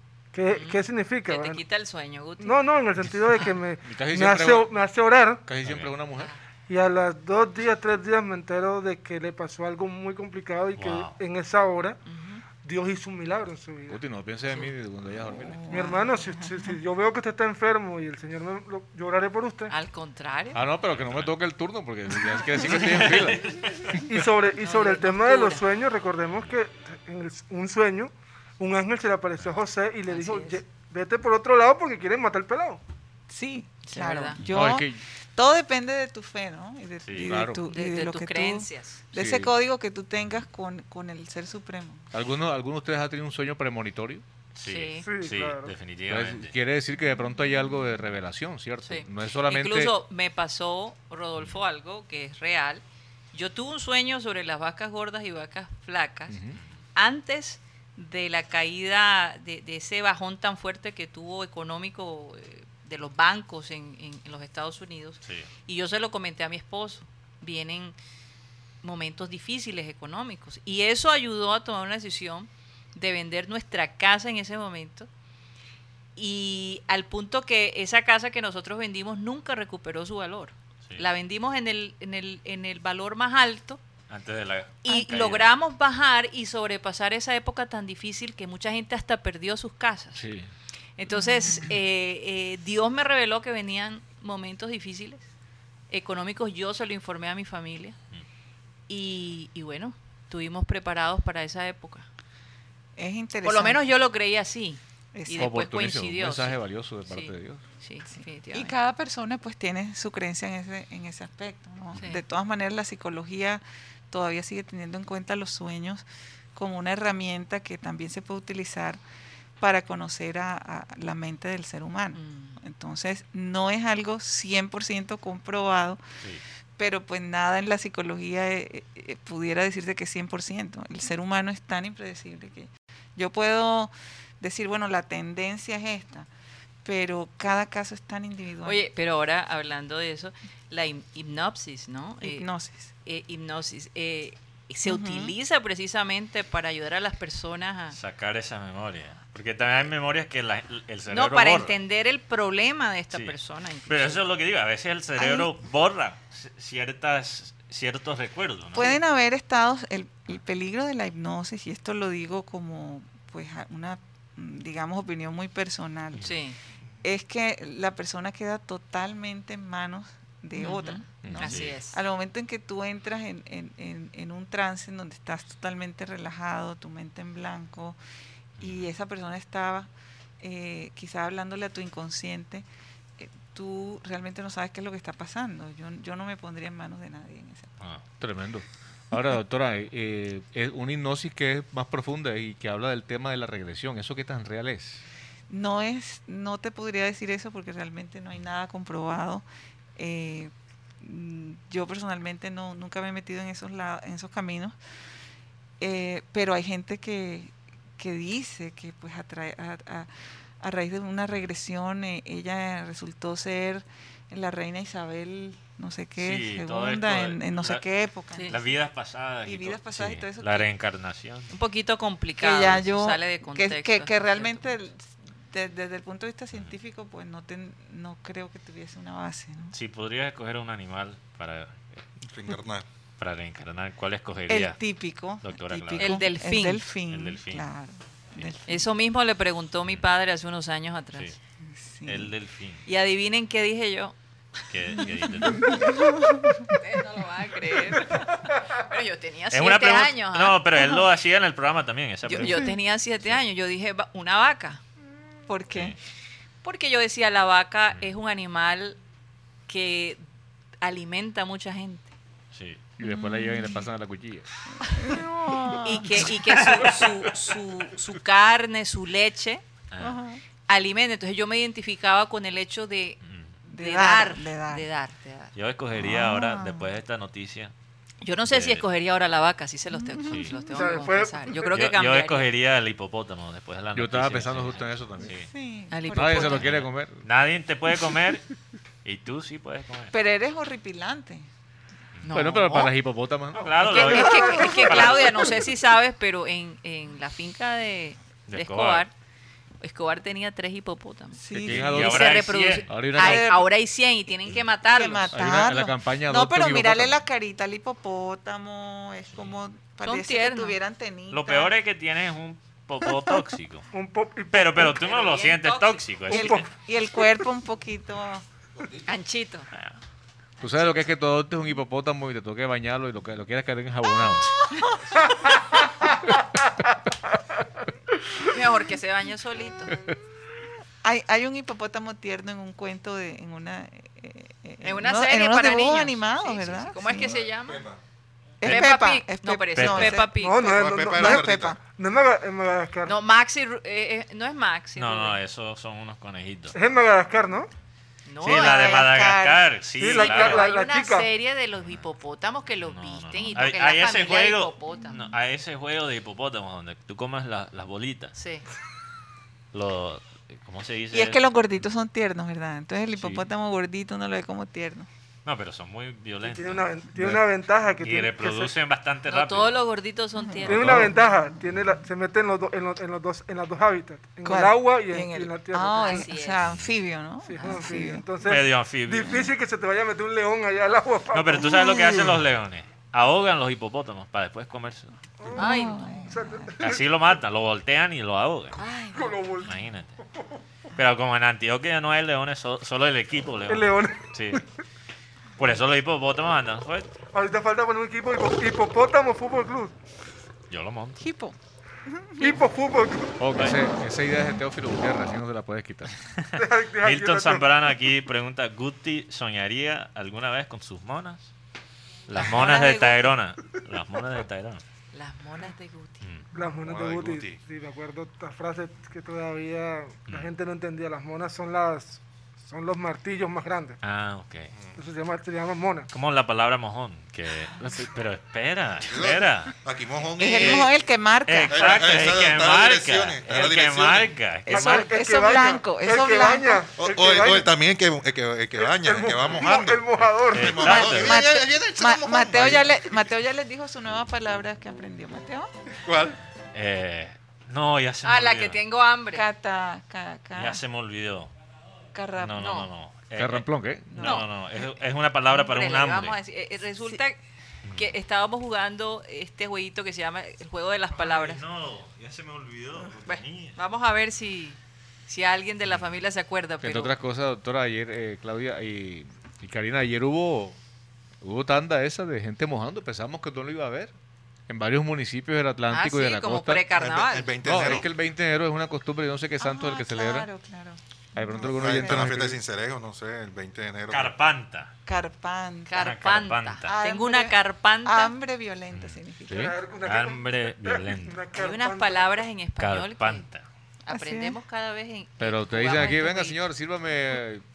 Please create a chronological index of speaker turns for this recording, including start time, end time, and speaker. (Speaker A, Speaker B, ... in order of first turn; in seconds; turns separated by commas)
Speaker A: 0.3-1.6, Speaker B: 0.5-2.5, Speaker A: 2.4-5.4, Speaker C: 3.8-4.7, Speaker C: 5.4-6.3, Speaker D: 5.6-5.9, Speaker A: 6.7-12.0, Speaker D: 10.8-11.1, Speaker B: 12.0-12.4, Speaker A: 12.6-14.0, Speaker C: 13.9-15.6, Speaker E: 15.4-16.7, Speaker A: 15.7-19.7, Speaker B: 19.7-20.6, Speaker C: 20.5-23.9, Speaker D: 20.9-21.4, Speaker D: 22.6-24.0, Speaker A: 24.1-32.8, Speaker B: 24.6-25.6, Speaker B: 30.1-30.6, Speaker E: 33.3-42.0, Speaker B: 33.9-34.4, Speaker C: 34.4-35.0, Speaker D: 37.0-37.4, Speaker C: 37.2-37.6, Speaker B: 37.6-39.0, Speaker C: 39.1-39.5, Speaker C: 42.1-44.2, Speaker D: 44.5-46.5, Speaker B: 44.6-45.1, Speaker A: 45.0-45.7, Speaker C: 46.1-49.9, Speaker B: 48.8-56.4, Speaker C: 56.3-56.6, Speaker B: 57.0-67.9, Speaker D: 65.2-65.5, Speaker B: 68.8-75.1, Speaker B: 76.2-83.8, Speaker D: 84.1-85.5, Speaker B: 84.8-90.2, Speaker C: 90.1-90.5, Speaker B: 91.0-95.2, Speaker E: 91.1-91.7, Speaker B: 95.9-98.0, Speaker B: 98.9-102.1, Speaker E: 103.0-103.8, Speaker B: 103.4-108.7, Speaker E: 105.1-105.5, Speaker C: 105.3-107.6, Speaker E: 108.1-119.0, Speaker B: 111.9-112.2, Speaker E: 119.6-126.0, Speaker B: 122.1-122.6, Speaker E: 126.8-136.3, Speaker E: 136.8-138.8, Speaker B: 138.6-142.5, Speaker E: 142.2-142.9, Speaker B: 143.0-147.9, Speaker E: 144.8-145.3, Speaker D: 147.9-151.7, Speaker B: 151.1-154.2, Speaker D: 153.9-159.0, Speaker E: 155.2-155.5, Speaker E: 158.7-166.4, Speaker B: 166.2-166.6, Speaker E: 167.0-178.0, Speaker B: 170.5-172.0, Speaker C: 171.2-171.5, Speaker D: 171.3-171.8, Speaker D: 178.6-178.9, Speaker E: 178.6-179.9, Speaker E: 180.4-182.6, Speaker E: 183.2-187.7, Speaker C: 188.2-195.0, Speaker E: 195.5-199.4, Speaker E: 200.0-204.8, Speaker E: 205.8-218.8, Speaker D: 216.2-217.8, Speaker B: 218.3-218.6, Speaker D: 218.5-221.5, Speaker E: 219.4-220.7, Speaker B: 221.5-224.7, Speaker E: 222.4-229.7, Speaker D: 229.7-232.0, Speaker F: 232.2-232.8, Speaker D: 233.2-234.8, Speaker E: 234.5-238.8, Speaker D: 235.4-236.3, Speaker B: 236.0-236.8, Speaker D: 237.1-237.7, Speaker B: 238.7-241.3, Speaker E: 241.7-242.3, Speaker D: 242.1-242.8, Speaker B: 242.8-244.1, Speaker D: 244.7-245.9, Speaker E: 245.3-246.7, Speaker B: 246.7-250.6, Speaker D: 249.5-253.4, Speaker E: 250.7-251.0, Speaker E: 252.2-252.7, Speaker B: 252.3-254.8, Speaker E: 255.5-255.9, Speaker B: 256.6-259.0, Speaker B: 259.7-260.2, Speaker B: 260.8-262.1, Speaker D: 262.5-262.8, Speaker C: 263.0-264.5, Speaker E: 263.0-263.9, Speaker E: 264.8-266.3, Speaker B: 265.8-269.6, Speaker D: 269.9-270.2, Speaker E: 270.0-270.4, Speaker B: 270.7-273.2, Speaker D: 273.2-273.5, Speaker E: 273.7-274.9, Speaker B: 273.8-275.5, Speaker D: 275.5-277.7, Speaker E: 275.9-276.9, Speaker B: 278.2-282.5, Speaker D: 278.5-278.8, Speaker E: 279.9-280.8, Speaker D: 280.3-280.5, Speaker A: 280.7-281.8, Speaker D: 281.6-285.5, Speaker C: 283.9-285.4, Speaker E: 285.3-286.6, Speaker B: 285.9-286.6, Speaker C: 286.1-287.2, Speaker D: 286.4-288.4, Speaker D: 289.0-290.1, Speaker E: 290.1-291.5, Speaker B: 292.2-292.9, Speaker C: 292.3-293.9, Speaker D: 293.6-295.6, Speaker B: 293.8-299.1, Speaker E: 294.1-295.1, Speaker A: 294.2-294.7, Speaker D: 298.5-299.1, Speaker B: 299.8-305.3, Speaker E: 301.3-302.1, Speaker C: 301.5-303.5, Speaker D: 301.7-302.9, Speaker E: 303.1-303.7, Speaker E: 304.5-311.7, Speaker C: 305.3-307.2, Speaker B: 310.0-310.8, Speaker D: 311.3-313.9, Speaker E: 313.1-313.3, Speaker A: 313.9-315.0, Speaker D: 314.5-316.7, Speaker B: 314.8-316.1, Speaker E: 316.3-318.4, Speaker A: 316.3-316.6, Speaker F: 318.8-319.0, Speaker B: 319.1-319.7, Speaker C: 320.6-324.5, Speaker A: 325.3-325.9, Speaker B: 328.4-329.9, Speaker E: 331.0-337.4, Speaker B: 334.8-337.8, Speaker F: 337.2-338.0, Speaker E: 338.6-341.8, Speaker B: 338.6-340.6, Speaker D: 339.7-340.2, Speaker A: 340.4-343.1, Speaker F: 340.6-341.8, Speaker B: 343.0-345.4, Speaker D: 344.9-346.8, Speaker A: 346.7-347.7, Speaker B: 348.3-349.1, Speaker D: 348.4-350.6, Speaker E: 348.4-349.7, Speaker A: 350.0-351.3, Speaker B: 350.1-355.2, Speaker D: 352.8-358.3, Speaker B: 358.4-358.6, Speaker D: 359.7-361.4, Speaker E: 361.1-365.1, Speaker D: 363.1-363.4, Speaker D: 365.4-366.9, Speaker A: 366.4-368.7, Speaker D: 368.0-369.8, Speaker B: 369.3-371.0, Speaker A: 370.6-376.3, Speaker D: 370.7-371.1, Speaker E: 374.4-378.2, Speaker B: 375.9-376.6, Speaker A: 377.4-381.8, Speaker D: 378.4-379.5, Speaker D: 381.3-385.1, Speaker E: 381.6-382.4, Speaker A: 385.4-387.0, Speaker E: 385.5-386.7, Speaker B: 385.6-386.1, Speaker D: 386.8-388.8, Speaker E: 388.8-389.3, Speaker A: 389.1-389.8, Speaker D: 389.6-390.1, Speaker D: 390.9-394.6, Speaker A: 393.7-394.6, Speaker D: 395.6-397.1, Speaker A: 397.3-399.9, Speaker D: 400.7-401.2, Speaker E: 401.2-401.6, Speaker E: 402.1-402.6, Speaker A: 402.4-403.4, Speaker C: 403.4-406.1, Speaker D: 406.4-411.5, Speaker A: 406.6-407.7, Speaker D: 412.3-414.8, Speaker B: 412.4-413.3, Speaker B: 415.1-416.2, Speaker A: 416.5-424.0, Speaker F: 416.8-417.6, Speaker D: 424.0-424.7, Speaker F: 424.7-425.0, Speaker A: 425.0-426.1, Speaker D: 426.1-429.7, Speaker F: 429.1-430.9, Speaker E: 430.4-432.2, Speaker D: 430.5-430.9, Speaker D: 431.4-435.1, Speaker F: 431.7-434.3, Speaker E: 434.7-436.9, Speaker A: 434.7-437.7, Speaker F: 436.9-443.1, Speaker A: 438.8-440.9, Speaker D: 440.5-441.4, Speaker E: 440.8-445.7, Speaker F: 446.0-446.4, Speaker D: 446.7-448.8, Speaker B: 448.2-449.4, Speaker E: 449.3-450.8, Speaker D: 450.6-451.5, Speaker E: 452.1-452.6, Speaker D: 452.4-456.4, Speaker B: 452.6-452.9, Speaker C: 453.4-454.2, Speaker E: 454.1-454.4, Speaker B: 454.2-454.5, Speaker B: 455.6-457.4, Speaker B: 457.9-461.6, Speaker D: 461.1-463.8, Speaker B: 463.2-467.1, Speaker C: 466.8-470.8, Speaker C: 471.4-474.1, Speaker C: 474.7-476.8, Speaker B: 475.9-477.5, Speaker F: 476.9-478.1, Speaker C: 477.6-480.5, Speaker E: 479.6-482.3, Speaker C: 481.3-482.6, Speaker F: 481.6-484.3, Speaker D: 484.1-484.9, Speaker E: 485.1-486.2, Speaker B: 485.9-488.3, Speaker D: 486.0-486.9, Speaker E: 486.9-489.7, Speaker D: 488.9-489.2, Speaker A: 489.5-492.4, Speaker D: 490.0-491.4, Speaker B: 491.5-493.4, Speaker D: 492.8-493.6, Speaker B: 494.1-496.6, Speaker E: 494.1-494.6, Speaker C: 495.4-497.6